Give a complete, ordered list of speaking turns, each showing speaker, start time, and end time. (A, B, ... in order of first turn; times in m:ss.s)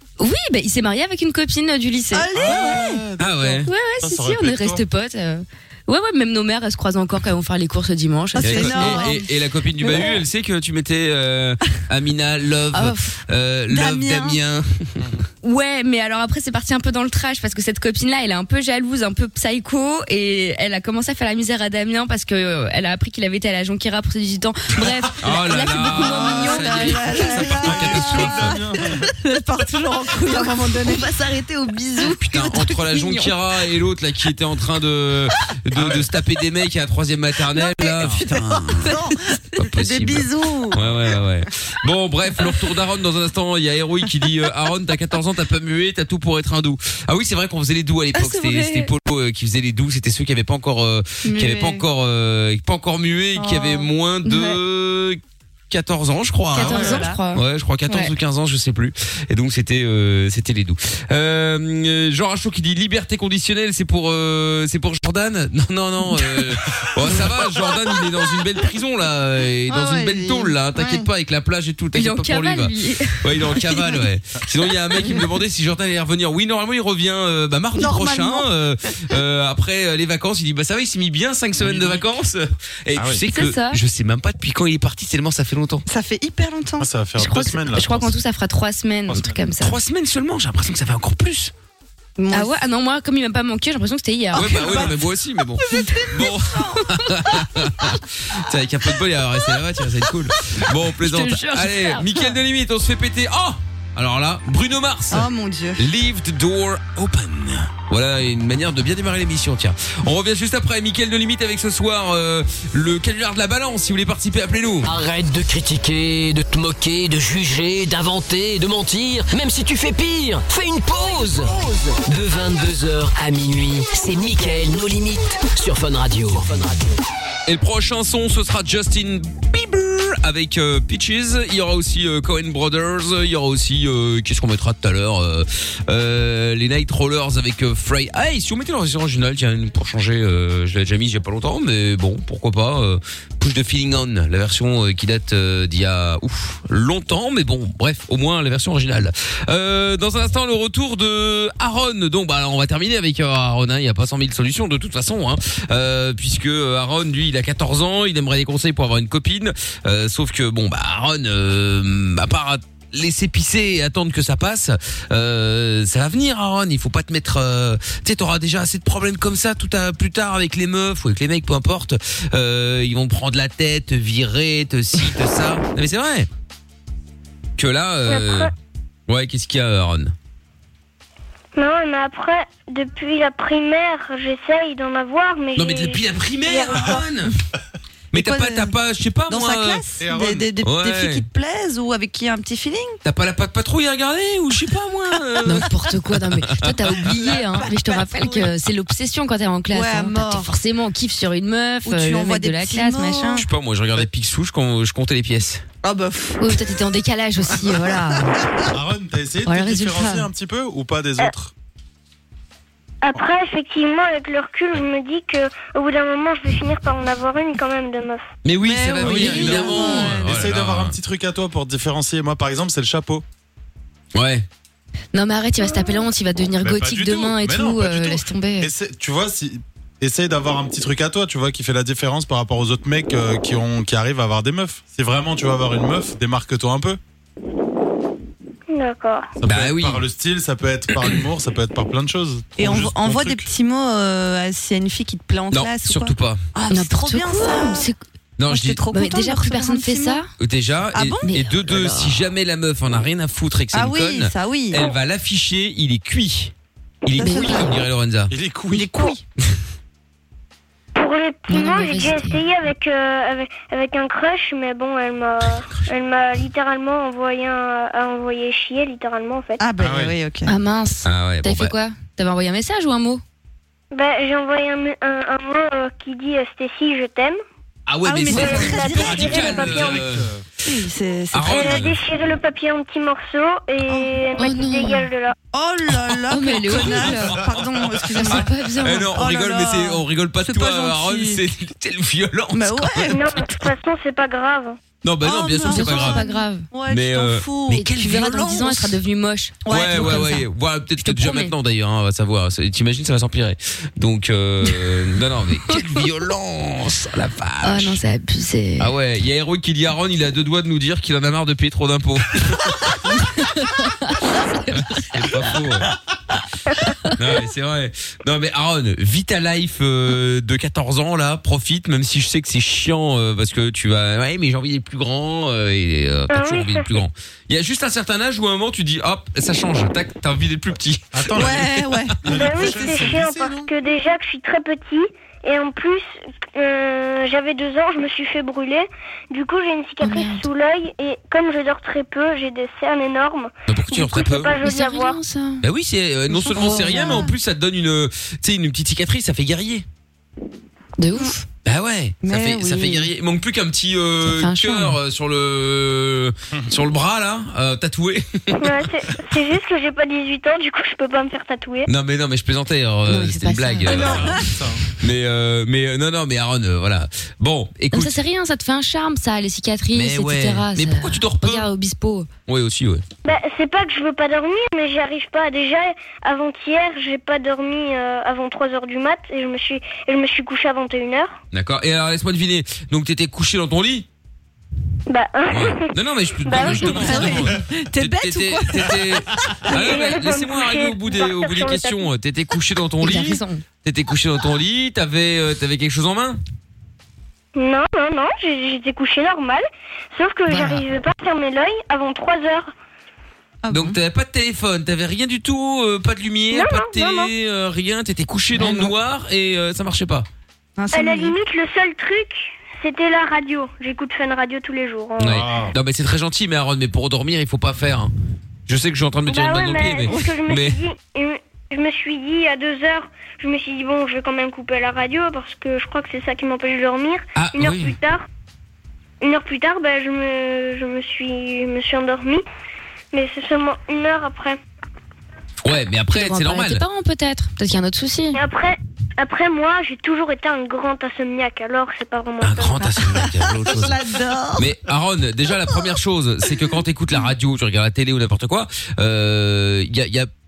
0:00.2-0:02.8 A
0:02.1-0:03.0 B
0:02.3-0:04.8 C
0:03.2-0:03.7 D
0:03.6-0:09.1 A
0:08.3-0:09.3 B
0:08.4-0:15.1 D
0:12.7-0:13.1 A
0:13.7-0:14.4 B
0:15.4-0:27.3 A
0:25.2-0:28.6 D
0:25.7-0:33.3 B
0:27.4-0:29.1 C
0:32.2-1:25.8 D
0:35.8-0:36.1 C
0:37.6-0:40.8 B
0:48.2-0:48.9 B
0:51.3-0:51.8 B
0:53.4-0:53.9 B
0:54.2-0:54.6 A
0:56.5-0:58.1 A
0:56.6-0:57.2 B
1:09.7-1:10.6 B
1:11.9-1:13.6 A
1:17.8-1:18.4 B
1:21.6-1:22.1 C
1:23.0-1:23.2 C
1:23.3-1:23.8 A
1:25.9-1:26.9 B
1:26.8-1:28.2 C
1:27.2-1:29.8 A
1:29.6-1:31.5 D
1:32.2-1:32.6 B
1:32.3-1:34.8 A
1:34.3-1:35.0 B
1:34.3-1:54.9 D
1:35.6-1:37.5 B
1:41.0-1:42.0 A
1:45.1-1:45.8 B
1:54.8-2:07.0 E
2:07.5-2:56.3 D
2:57.6-2:58.5 D
2:58.1-2:58.5 F
2:59.1-3:00.1 D
3:01.6-3:07.0 F
3:05.6-3:07.3 D
3:08.1-3:08.7 B
3:08.1-3:09.8 D
3:09.3-3:13.0 B
3:10.0-3:10.5 C
3:10.6-3:11.2 D
3:13.0-3:17.1 D
3:15.4-3:23.4 A
3:17.0-3:18.5 B
3:19.7-3:20.5 B
3:21.8-3:23.4 B
3:23.3-3:25.7 D
3:25.8-3:26.8 B
3:26.4-3:28.4 A
3:27.5-3:28.7 B
3:28.7-3:31.5 C
3:29.4-3:30.2 A
3:33.0-3:38.2 F
3:38.4-3:41.0 D
3:38.7-3:40.5 B
3:39.0-3:43.2 C
3:44.1-3:44.5 D
3:45.1-3:48.7 A
3:46.6-3:57.0 C
3:58.7-3:59.3 F
3:59.4-4:03.5 C
3:59.4-4:00.0 D
4:02.6-4:07.9 B
4:05.5-4:06.4 D
4:06.7-4:08.0 A
4:08.4-4:08.8 D
4:08.5-4:10.2 B
4:08.9-4:10.3 A
4:10.4-4:16.5 D
4:10.9-4:11.2 B
4:11.2-4:12.2 A
4:13.7-4:14.8 B
4:17.0-4:18.3 D
4:17.2-4:17.7 B
4:17.2-4:17.7 A
4:18.3-4:19.2 C
4:18.7-4:19.2 B
4:21.0-4:29.6 F
4:21.5-4:22.4 A
4:29.6-4:30.6 B
4:29.8-4:30.2 C
4:30.5-4:33.2 A
4:31.0-4:31.7 D
4:33.9-4:37.4 F
4:37.9-4:40.3 D
4:38.0-4:39.6 B
4:38.3-4:40.1 F
4:39.0-4:40.4 C
4:40.6-4:41.8 B
4:41.3-4:42.0 D
4:41.5-4:45.4 F
4:44.4-4:45.1 A
4:45.5-4:48.5 B
4:45.9-4:53.6 D
4:46.3-4:47.4 A
4:48.0-4:49.1 A
4:49.0-4:51.4 B
4:52.5-4:53.2 B
4:53.1-4:54.8 F
4:55.0-4:56.2 D
4:55.2-4:58.9 B
4:55.7-4:56.7 A
4:56.9-4:58.6 D
4:57.8-5:00.5 A
4:59.6-5:00.3 B
4:59.7-5:08.0 D
5:01.0-5:01.5 A
5:07.6-5:08.9 A
5:08.8-5:12.8 D
5:13.2-5:15.3 A
5:14.8-5:15.9 D
5:17.2-5:31.6 D
5:26.3-5:26.9 F
5:31.1-5:33.7 C
5:31.4-5:32.7 B
5:32.3-5:45.2 F
5:40.0-5:40.5 A
5:43.7-5:44.6 D
5:44.6-5:45.6 A
5:45.6-5:49.9 D
5:46.3-5:47.3 B
5:46.5-5:47.3 A
5:51.0-5:51.4 A
5:51.6-5:58.9 D
5:52.2-5:53.1 B
5:54.2-5:55.0 A
5:58.6-6:01.9 F
6:01.9-6:04.4 D
6:03.1-6:04.0 A
6:03.9-6:04.8 C
6:03.9-6:04.5 B
6:05.0-6:08.1 D
6:07.9-6:12.3 A
6:09.9-6:11.7 D
6:12.5-6:13.0 D
6:13.2-6:21.4 F
6:21.5-6:24.1 D
6:25.1-6:25.9 F
6:25.5-6:36.4 D
6:26.4-6:27.3 F
6:26.6-6:29.7 B
6:29.7-6:32.1 F
6:33.0-6:33.6 A
6:37.6-6:39.6 F
6:40.2-6:42.7 F
6:40.5-6:40.8 A
6:43.6-6:44.0 B
6:43.7-6:50.3 D
6:46.5-6:47.3 F
6:48.6-6:48.9 B
6:50.8-6:51.4 B
6:50.9-6:55.4 F
6:55.2-6:58.1 D
6:55.3-6:55.8 C
6:58.7-7:00.8 D
6:59.3-7:08.2 F
7:07.4-7:08.0 D
7:09.2-7:12.4 F
7:13.1-7:14.6 F
7:15.6-7:16.8 D
7:16.1-7:18.4 A
7:18.3-7:22.9 F
7:22.4-7:24.0 D
7:23.2-7:24.7 B
7:24.6-7:30.3 D